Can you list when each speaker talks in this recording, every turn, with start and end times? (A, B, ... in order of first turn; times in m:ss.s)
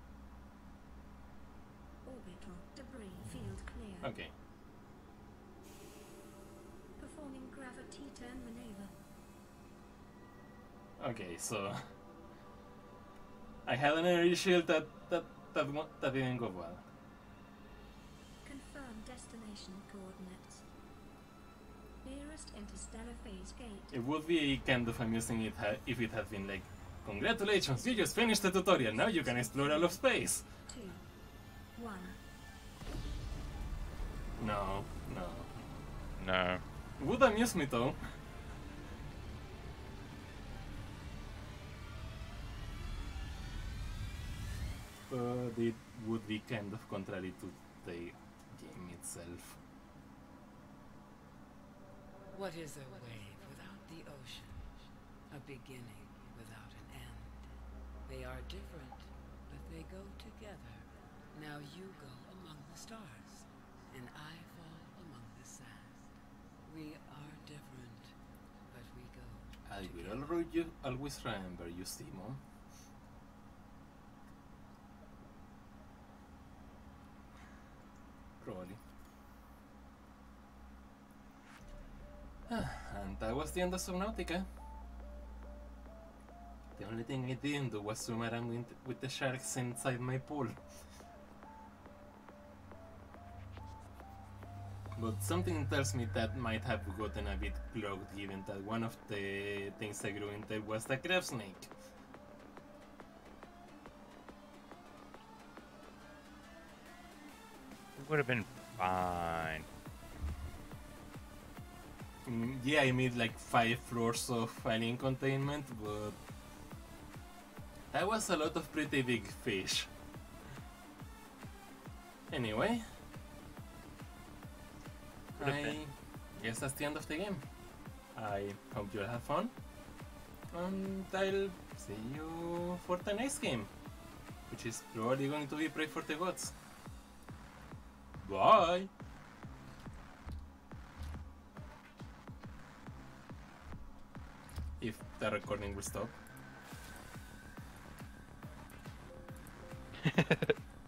0:02.0-0:04.1 A
0:04.0-0:04.3 B
0:07.0-0:08.9 A
0:11.0-0:11.8 B
0:13.6-0:16.8 B
0:18.4-0:20.6 A
0:22.0-0:23.9 A
0:23.9-0:30.5 B
0:27.7-0:30.0 A
0:30.7-0:31.0 A
0:31.7-0:32.2 A
0:34.4-0:35.8 B
0:36.2-0:36.6 C
0:37.0-0:38.0 B
0:45.1-0:49.6 B
0:52.3-0:57.5 D
0:58.0-1:06.1 D
1:06.6-1:08.1 D
1:08.7-1:10.4 D
1:09.6-1:12.4 B
1:18.4-1:18.8 B
1:22.5-1:24.5 B
1:26.8-1:30.6 B
1:35.0-1:41.7 B
1:48.0-1:49.7 C
1:52.2-1:56.2 B
1:57.9-1:59.9 B
2:02.3-2:02.8 B
2:05.4-2:05.8 C
2:05.4-2:07.4 B
2:08.1-2:09.5 B
2:10.5-2:13.7 B
2:14.5-2:16.5 B
2:18.2-2:18.9 B
2:24.8-2:26.2 B
2:30.0-2:30.6 C